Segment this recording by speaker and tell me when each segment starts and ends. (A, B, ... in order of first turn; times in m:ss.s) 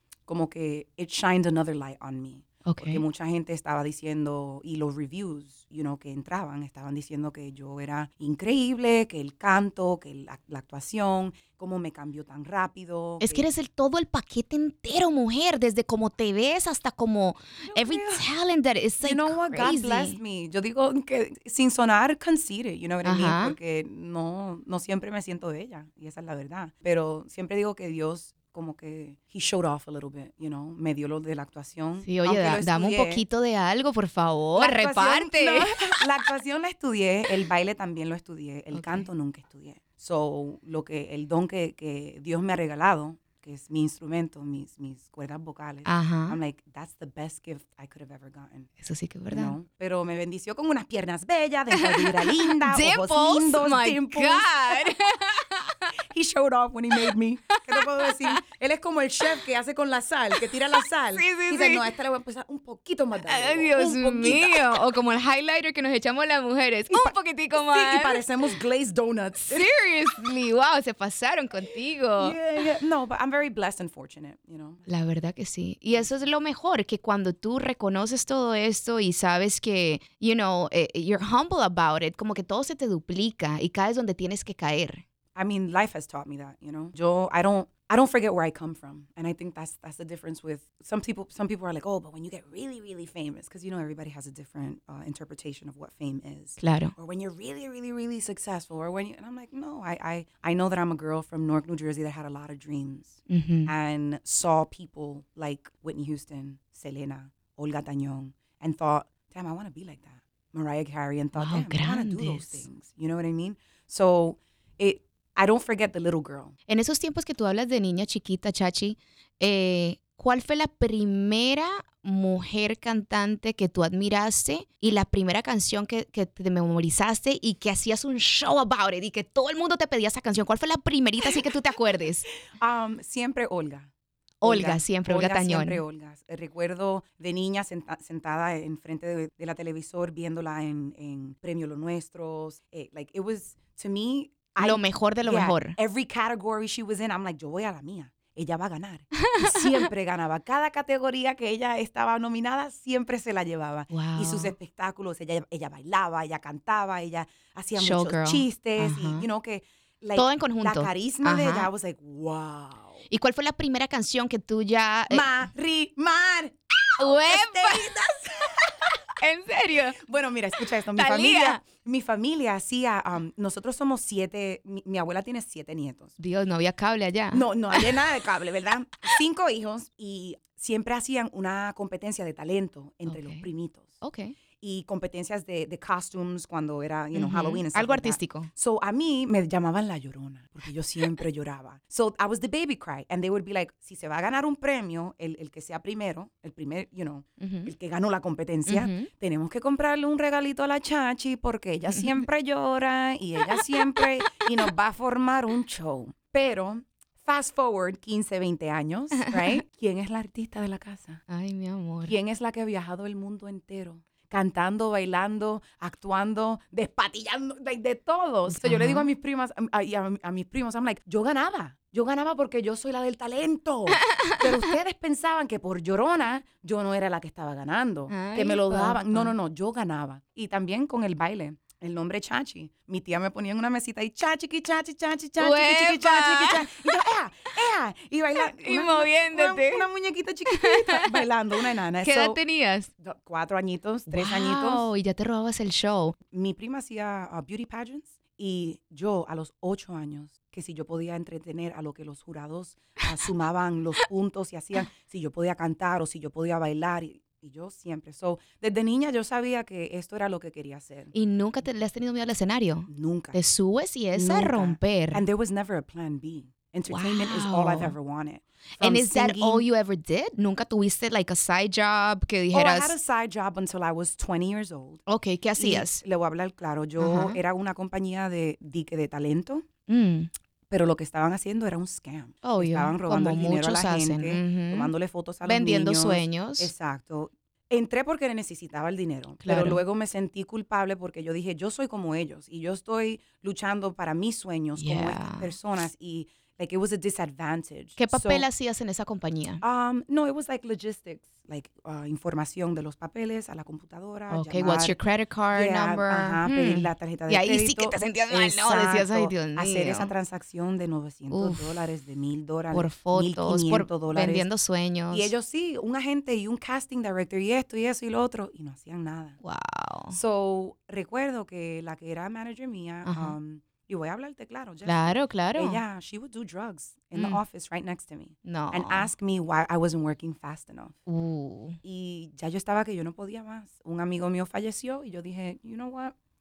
0:00.3-0:13.5 A
0:02.6-0:03.0 B
0:13.2-0:20.2 B
0:17.6-0:18.2 A
0:19.0-0:33.2 A
0:23.0-0:23.6 B
0:32.0-0:36.0 B
0:34.6-0:48.7 A
0:38.7-0:39.1 B
0:45.9-0:46.4 B
0:48.8-0:49.6 B
0:49.3-0:55.0 A
0:51.8-0:55.9 B
0:56.1-1:04.8 A
0:57.5-0:58.4 B
1:01.1-1:01.8 B
1:03.3-1:08.2 B
1:06.9-1:09.7 A
1:09.5-1:12.4 B
1:12.2-1:14.8 A
1:14.9-1:25.0 B
1:25.4-1:56.6 A
1:36.6-1:36.9 B
1:43.3-1:43.7 B
1:51.4-1:52.6 B
1:56.7-2:12.3 B
2:12.5-2:13.9 A
2:14.4-2:15.8 B
2:14.4-2:43.0 A
2:24.6-2:25.8 B
2:29.2-2:29.9 B
2:33.9-2:34.5 B
2:37.8-2:39.3 B
2:40.2-2:41.7 B
2:43.1-2:45.3 B
2:45.1-2:48.9 A
2:47.0-2:48.0 B
2:49.2-2:50.0 B
2:50.0-2:56.2 A
2:51.0-2:51.6 B
2:56.2-2:57.9 B
2:57.3-3:03.9 A
3:03.1-3:03.5 B
3:04.0-3:04.4 B
3:04.6-3:31.2 A
3:07.1-3:08.5 B
3:17.4-3:17.7 B
3:18.7-3:19.1 B
3:21.9-3:22.2 B
3:29.3-3:29.6 B
3:31.3-3:32.2 B
3:32.0-4:02.4 A
3:38.5-3:39.1 B
3:44.0-3:44.6 B
3:48.1-3:49.3 B
3:55.4-3:57.0 B
3:58.4-3:59.8 B
4:00.5-4:01.1 B
4:02.0-4:02.9 B
4:03.0-4:04.9 A
4:04.1-4:06.2 B
4:06.3-4:21.1 A
4:21.1-4:25.2 B
4:22.9-4:23.4 A
4:24.1-4:29.7 A
4:26.9-4:28.0 B
4:28.8-4:33.0 B
4:32.5-4:35.0 A
4:35.1-4:36.0 B
4:35.6-4:39.7 A
4:37.0-4:37.4 B
4:39.9-4:40.3 B
4:40.7-4:58.5 A
4:42.4-4:44.9 B
4:45.4-4:46.7 B
4:49.4-4:49.8 B
4:54.8-4:55.5 B
4:58.0-4:59.6 B
4:59.6-5:05.0 A
5:04.3-5:10.1 B
5:05.5-5:14.5 A
5:11.3-5:11.8 B
5:12.7-5:15.3 B
5:15.1-5:19.4 A
5:19.4-5:20.2 B
5:20.1-5:31.0 A
5:23.1-5:23.4 B
5:24.8-5:25.8 B
5:27.1-5:27.4 B
5:28.4-5:29.1 B
5:31.1-5:31.8 B
5:31.8-5:36.2 A